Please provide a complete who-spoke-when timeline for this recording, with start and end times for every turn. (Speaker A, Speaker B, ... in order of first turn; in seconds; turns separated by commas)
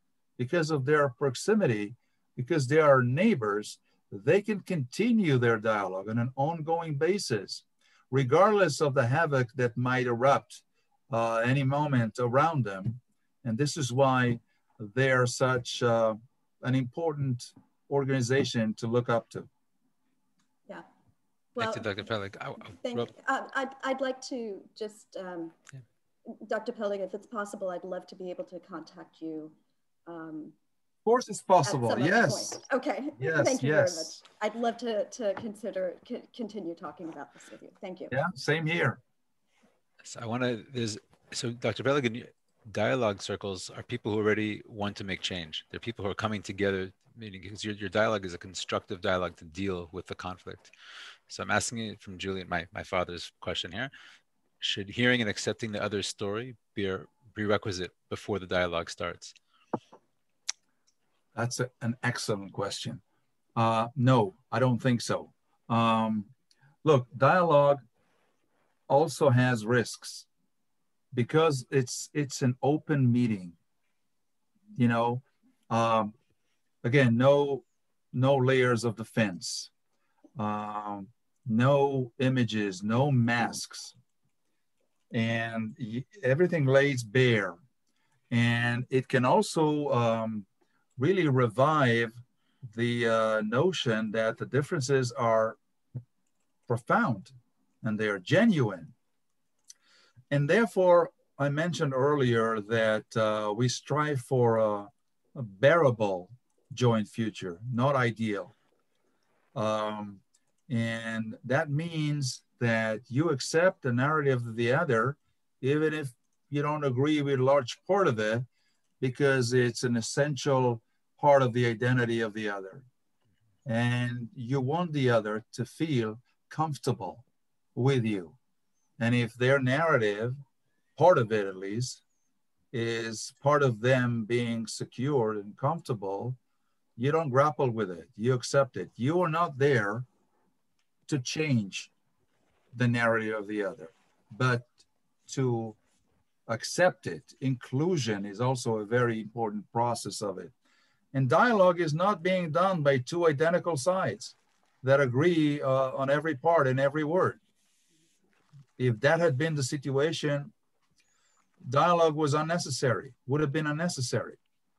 Speaker A: 0.4-19.5, Speaker B: 21.6-22.0, Speaker C: 21.6-23.1, Speaker B: 22.7-25.6, Speaker B: 26.3-29.6, Speaker B: 30.1-30.6, Speaker A: 31.1-32.6, Speaker B: 31.6-38.1, Speaker A: 33.2-34.2, Speaker A: 38.1-39.0, Speaker C: 40.0-50.7, Speaker C: 51.3-53.9, Speaker C: 54.6-59.4, Speaker A: 61.4-63.0, Speaker A: 63.6-66.3, Speaker A: 66.8-67.8, Speaker A: 68.9-70.3, Speaker A: 71.1-73.6, Speaker A: 74.8-76.1, Speaker A: 76.8-79.7, Speaker A: 80.4-84.0, Speaker A: 85.1-87.6, Speaker A: 88.3-95.6, Speaker A: 96.7-98.9, Speaker A: 100.3-108.5, Speaker A: 109.5-118.5, Speaker A: 119.0-122.9, Speaker A: 123.7-128.4, Speaker A: 129.0-130.4, Speaker A: 131.0-132.0, Speaker A: 132.7-136.4, Speaker A: 137.0-140.1, Speaker A: 141.1-141.9, Speaker A: 142.7-144.7, Speaker A: 145.3-145.8, Speaker A: 146.5-150.5, Speaker A: 151.1-157.4, Speaker A: 158.8-160.5, Speaker A: 161.6-164.4